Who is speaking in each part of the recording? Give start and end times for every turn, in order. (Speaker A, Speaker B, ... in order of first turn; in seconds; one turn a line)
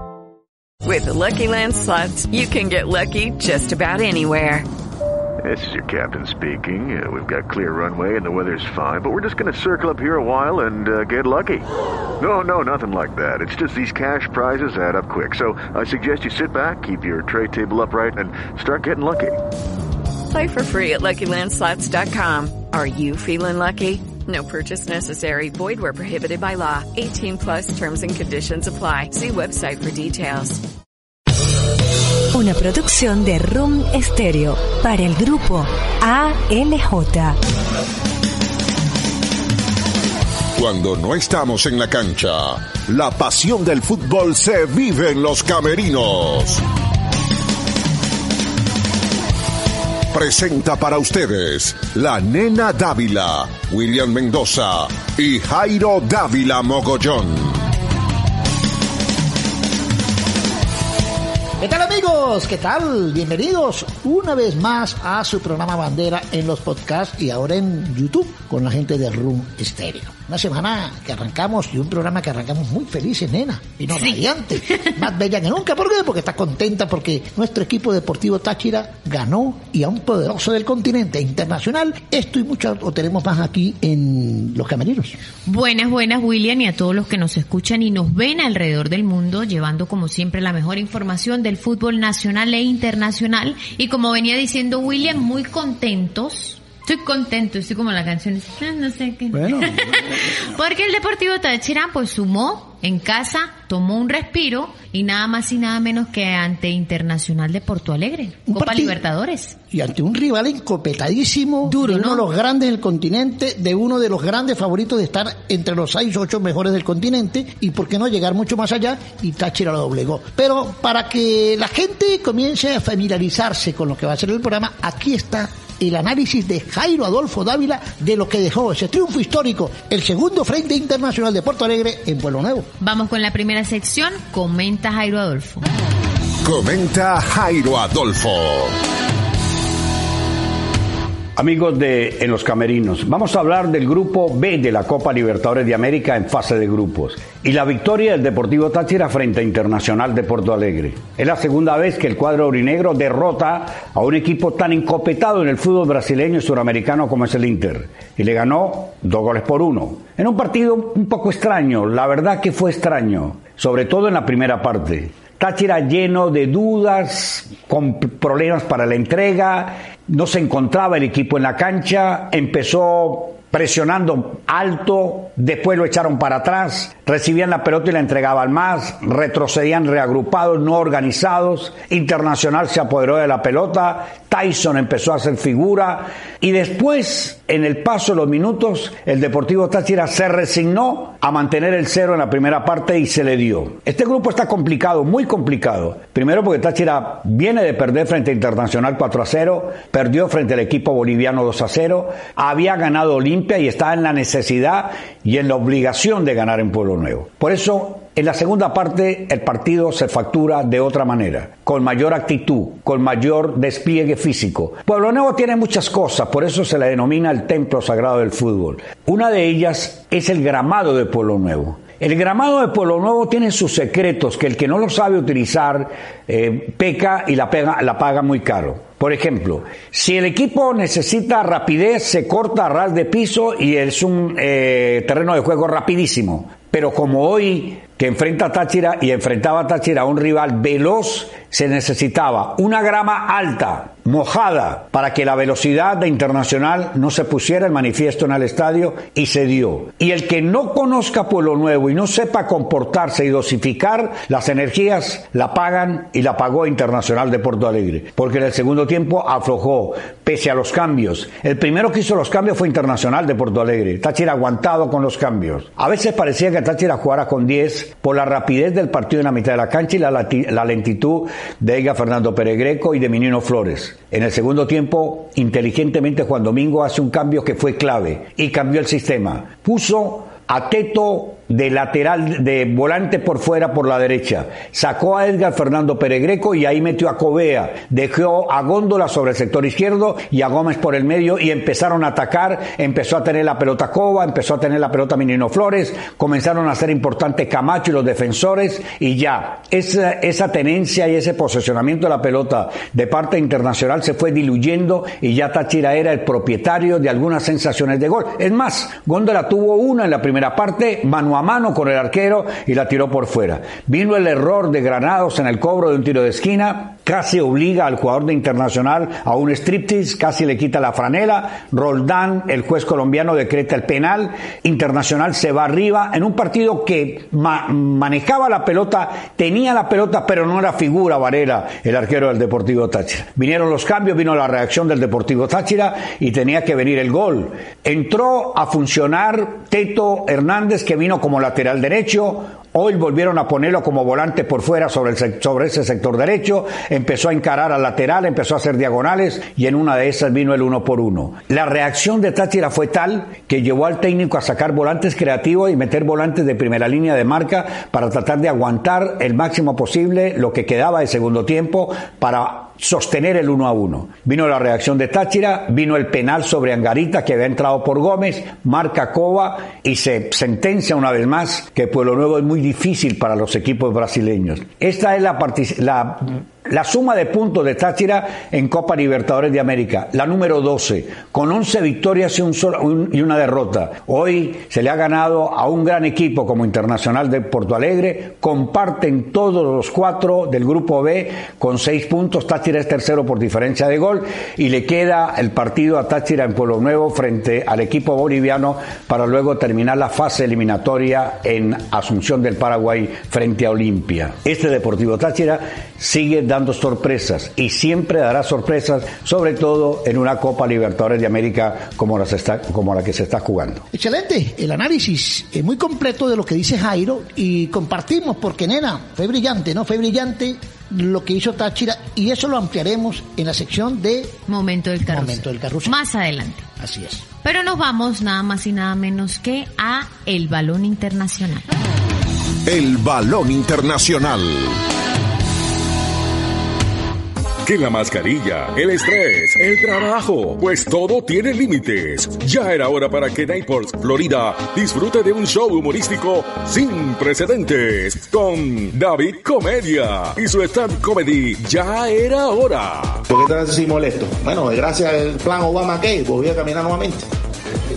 Speaker A: 0.8-4.7
Speaker B: 5.4-11.6
Speaker B: 12.2-19.4
Speaker A: 20.3-30.6
Speaker C: 32.3-37.4
Speaker D: 40.5-46.6
Speaker D: 50.1-57.7
Speaker E: 61.6-85.2
Speaker F: 73.9-74.9
Speaker F: 85.5-109.6
Speaker E: 99.3-100.2
Speaker E: 108.5-109.0
Speaker E: 109.7-132.7
Speaker F: 111.6-112.3
Speaker F: 132.8-135.7
Speaker D: 136.4-138.8
Speaker G: 141.4-413.9
Speaker E: 413.9-424.4
Speaker F: 424.5-426.7
Speaker E: 425.0-426.0
Speaker E: 426.8-427.2
Speaker F: 427.4-431.7
Speaker D: 432.6-434.8
Speaker H: 437.6-453.2
Speaker I: 453.3-457.2